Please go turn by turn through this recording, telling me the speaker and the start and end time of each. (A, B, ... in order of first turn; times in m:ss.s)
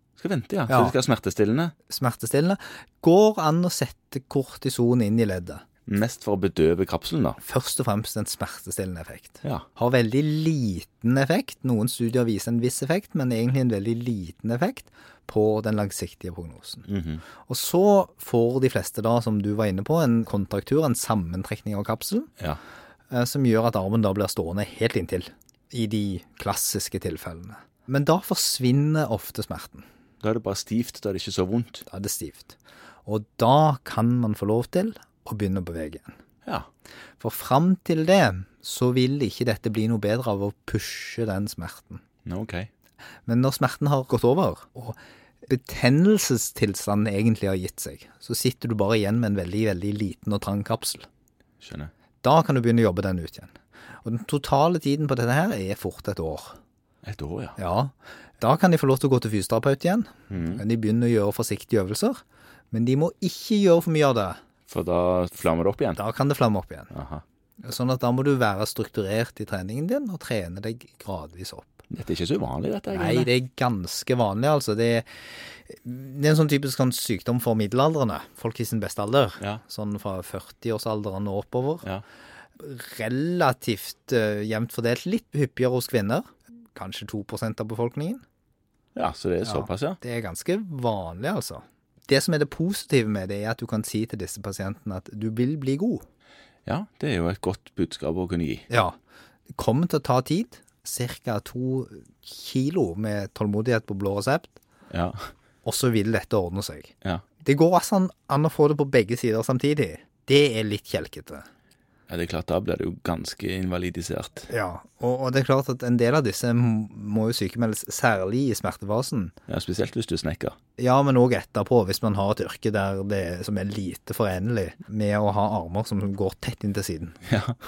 0:00.2-0:01.7 A
0:00.7-0:01.0 B
0:01.9-0:05.6 B
0:05.9-0:07.4 A
0:07.4-0:16.9 B
0:16.9-0:17.2 A
0:17.4-0:22.3 B
0:23.1-0:29.8 B
0:30.2-0:31.8 A
0:31.9-0:36.1 B
0:37.2-0:42.0 B
0:42.2-0:42.7 A
0:43.3-0:51.1 B
0:51.6-0:51.9 A
0:52.2-0:56.6 B
0:57.0-0:57.6 A
0:57.6-1:04.4 B
1:00.3-1:00.6 A
1:04.7-1:06.0 A
1:06.0-1:06.9 B
1:06.9-1:07.2 A
1:07.6-1:11.8 B
1:11.9-1:13.3 A
1:12.9-1:21.9 B
1:22.6-1:28.2 B
1:29.0-1:30.0 A
1:29.4-1:36.0 B
1:36.7-1:38.7 A
1:38.7-1:39.0 B
1:39.5-1:44.6 B
1:44.9-1:45.3 A
1:45.6-1:46.9 B
1:47.4-1:51.5 B
1:52.1-1:54.5 A
1:54.5-1:59.3 B
1:59.5-2:00.6 A
2:00.8-2:07.2 B
2:07.3-2:07.6 A